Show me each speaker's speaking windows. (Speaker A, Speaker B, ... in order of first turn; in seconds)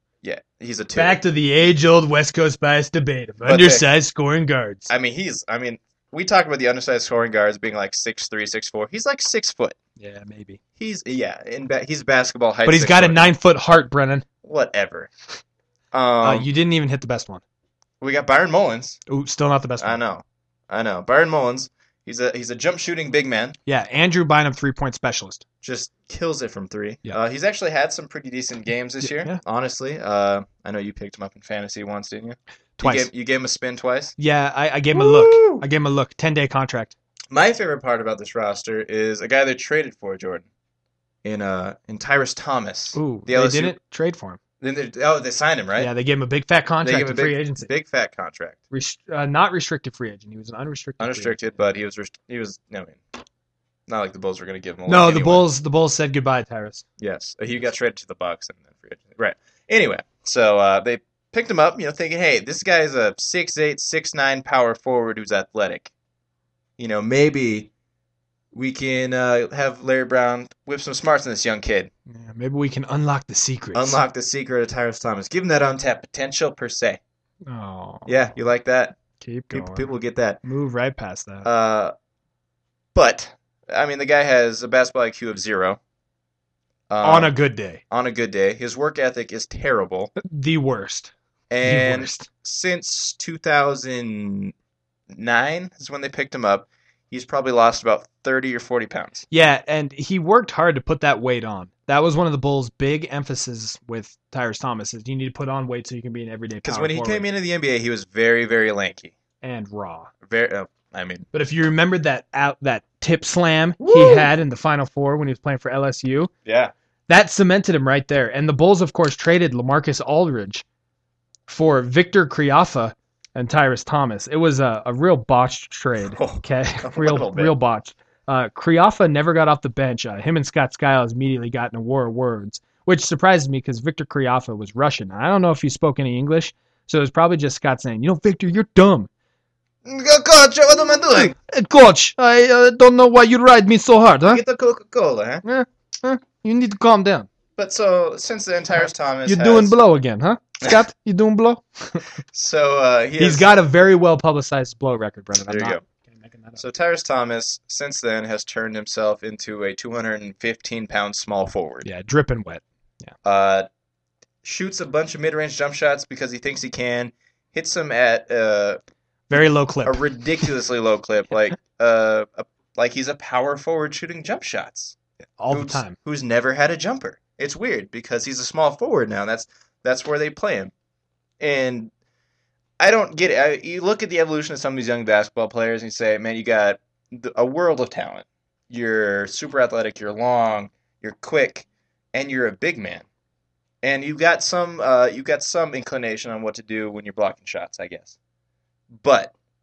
Speaker A: 0.2-1.2, 3.4-3.9, 4.9-9.8, 10.8-13.3, 14.4-15.1, 15.9-16.5, 18.0-19.0, 19.8-23.6, 25.6-34.1, 34.9-35.6, 37.3-40.5, 41.2-43.8, 44.6-45.9, 46.8-48.6, 51.0-53.0, 53.9-55.5, 57.0-65.9, 66.8-67.7, 68.5-71.9, 73.7-77.0, 78.1-79.0, 79.5-80.4, 81.4-81.9, 82.9-85.8, 86.9-87.3, 87.9-90.1, 91.5-94.5, 95.1-99.2, 106.6-109.2, 110.2-111.3, 113.8-114.3, 116.5-116.7, 126.1-127.5, 139.8-141.3, 144.3-145.4, 147.6-149.8, 152.3-153.5, 155.5-155.8, 156.6-161.9, 163.2-163.7, 164.4-168.8, 169.3-175.0, 175.5-180.7, 181.4-181.9, 182.8-193.1, 193.8-198.2, 198.9-199.3
Speaker B: 0.9-4.9, 10.0-10.6, 12.7-14.2, 16.2-17.4, 19.1-20.0, 23.7-25.4, 29.0-29.4, 32.8-33.1, 34.2-37.0, 42.9-44.4, 45.8-47.7, 48.7-51.4, 54.9-56.9, 72.1-74.0, 77.5-78.1, 79.2-79.9, 80.4-81.5, 87.0-87.8, 90.2-92.3, 99.3-107.2, 109.4-110.1, 111.3-116.3, 117.1-120.7, 121.5-139.1, 141.2-144.4, 145.4-147.3, 149.3-152.1, 153.2-156.6, 161.8-163.1, 169.3-170.5, 175.4-176.0